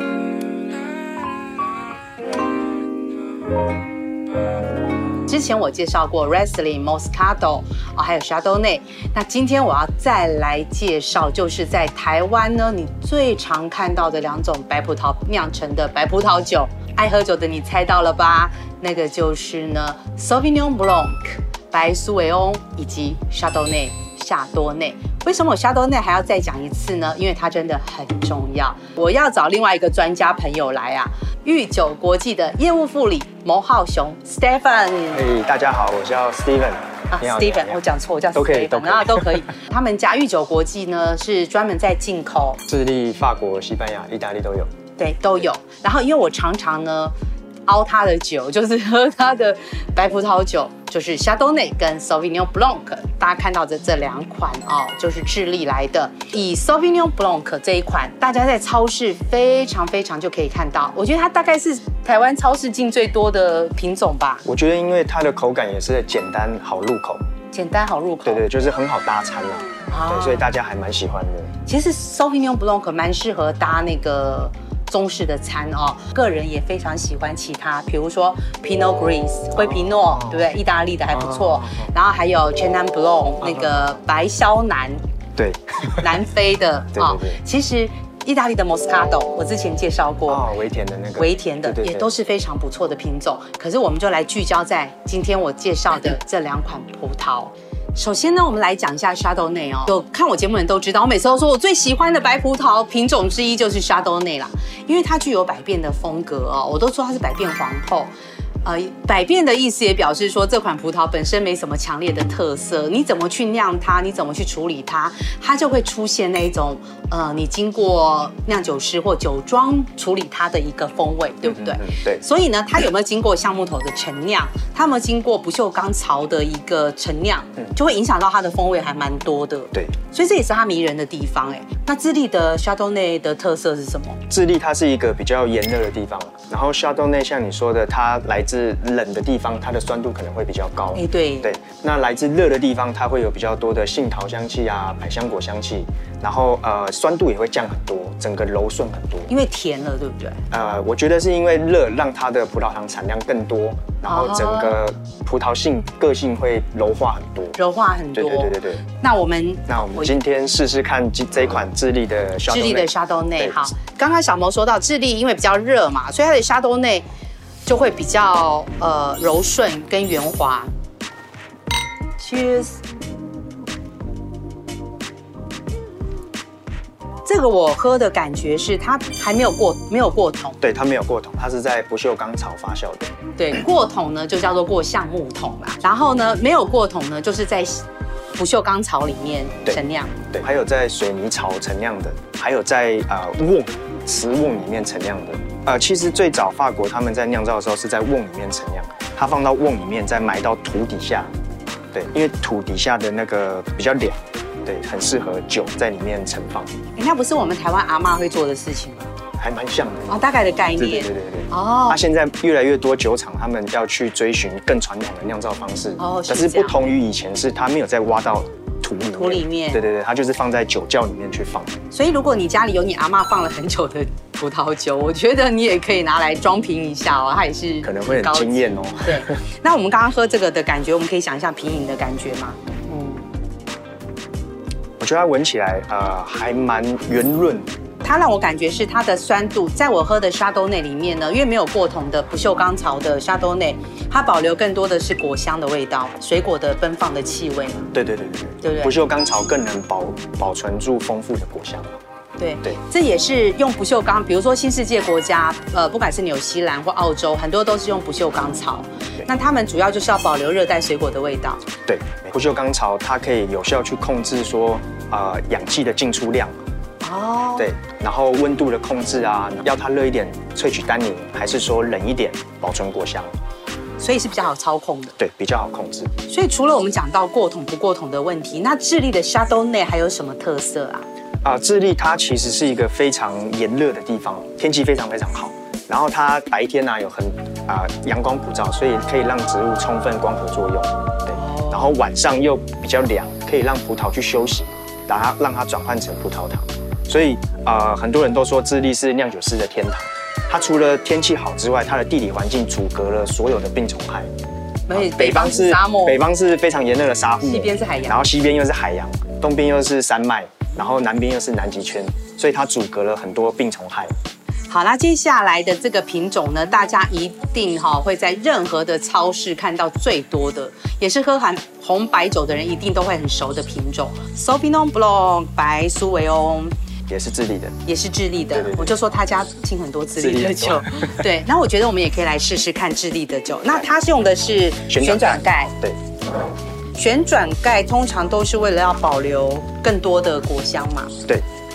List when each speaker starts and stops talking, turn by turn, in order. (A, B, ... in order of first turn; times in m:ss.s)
0:05.3-0:35.3 A
0:35.1-0:37.8 B
0:37.1-0:42.6 A
0:38.3-0:39.5 B
0:42.7-0:44.7 B
0:45.0-0:47.1 A
0:47.7-1:04.4 A
1:04.4-1:07.2 B
1:07.5-1:08.4 A
1:08.2-1:11.5 B
1:09.9-1:10.4 A
1:11.7-1:25.0 A
1:21.1-1:21.9 B
1:23.4-1:23.9 B
1:25.4-1:26.1 B
1:26.0-1:30.5 A
1:27.0-1:27.4 B
1:30.3-1:32.1 B
1:31.2-1:48.1 A
1:48.6-2:14.2 A
2:01.4-2:02.2 B
2:14.3-2:29.3 B
2:21.0-2:21.5 A
2:29.3-2:30.4 A
2:30.5-2:37.6 B
2:34.1-2:34.8 A
2:37.6-2:40.1 A
2:38.1-2:38.8 B
2:39.7-2:43.7 B
2:42.5-2:47.1 A
2:47.7-2:50.7 A
2:52.2-2:52.8 A
2:57.2-3:00.6 A
3:00.6-3:03.1 B
3:03.4-3:10.2 A
3:10.3-3:21.3 B
3:21.9-3:26.8 B
3:27.0-3:29.1 A
3:29.4-3:41.8 B
3:30.1-3:32.0 A
3:36.0-3:36.9 A
3:39.1-3:39.8 A
3:41.9-3:53.2 A
3:47.8-3:49.4 B
3:55.0-3:57.7 B
3:58.0-4:07.9 A
4:07.9-4:12.0 B
4:08.6-4:09.0 A
4:12.4-4:21.6 A
4:21.9-4:26.6 B
4:27.0-4:27.7 A
4:27.6-4:33.3 B
4:34.0-4:35.2 A
4:35.2-4:36.1 B
4:36.3-4:41.1 A
4:41.4-5:04.3 B
4:51.4-4:51.8 A
5:04.9-5:06.2 A
5:04.9-5:14.1 B
5:07.4-5:08.2 A
5:14.7-5:26.8 A
5:27.1-5:27.8 B
5:27.8-5:35.8 A
5:28.5-5:29.0 B
5:30.2-5:31.1 B
5:34.9-5:36.0 B
5:37.0-5:41.2 A